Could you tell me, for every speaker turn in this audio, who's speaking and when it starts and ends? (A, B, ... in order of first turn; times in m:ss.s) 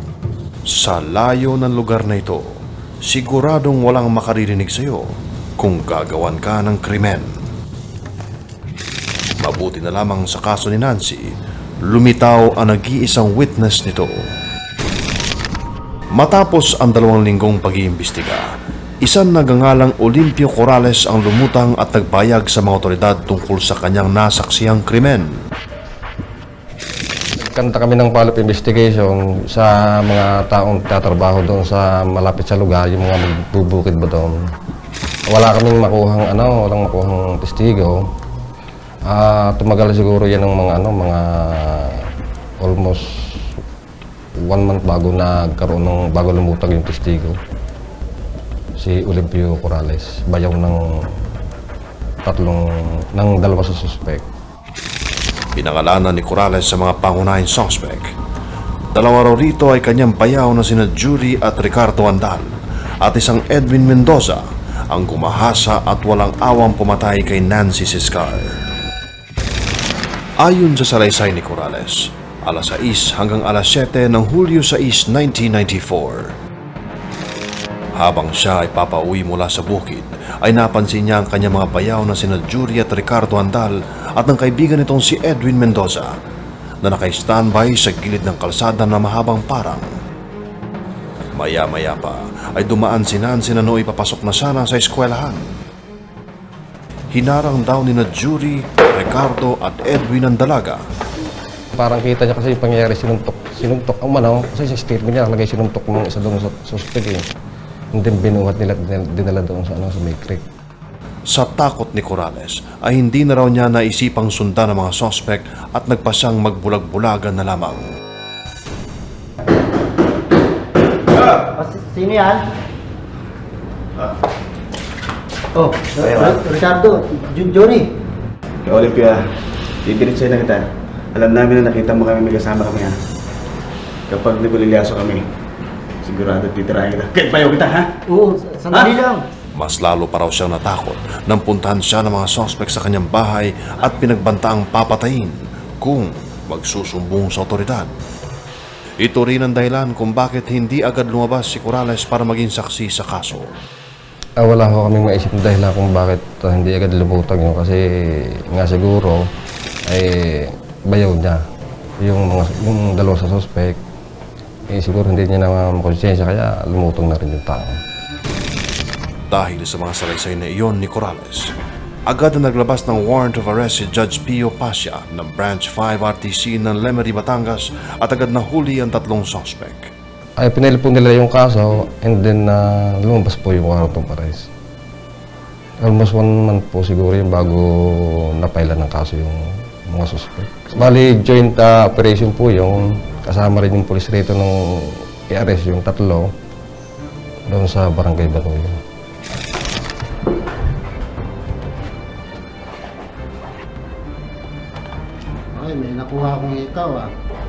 0:00.7-0:07.3 A
0:09.4-0:11.3 A
0:11.8-0:14.2 A
0:16.2-0:18.5 A
0:19.0-0:25.4 A
0:27.4-0:34.5 B
0:35.3-0:38.0 B
0:39.1-0:42.1 B
0:42.6-0:43.5 B
0:44.4-0:47.4 B
0:48.8-0:51.2 B
0:52.2-0:54.3 B
0:55.6-0:58.1 A
0:58.9-1:08.6 A
1:10.4-1:16.4 A
1:18.0-1:26.1 A
1:26.8-1:29.9 A
1:31.4-1:35.5 A
1:37.1-1:40.8 A
1:41.8-1:47.2 B
1:48.0-1:50.4 B
1:51.3-1:57.9 A
2:01.5-2:02.4 C
2:05.6-2:07.9 C
2:06.0-2:06.5 D
2:08.7-2:09.2 D
2:09.9-2:10.6 D
2:11.2-2:13.0 D
2:14.1-2:15.2 D
2:16.0-2:17.9 D
2:18.1-2:19.2 C
2:19.6-2:27.9 A
2:29.0-2:33.5 A
2:34.4-2:39.3 B
2:39.9-2:41.4 B
2:42.0-2:43.8 B
2:44.7-2:47.8 B
2:49.3-2:51.5 A
2:52.1-2:59.9 A
3:00.4-3:04.5 B
3:05.8-3:16.3 B
3:17.5-3:18.8 B
3:25.6-3:27.1 C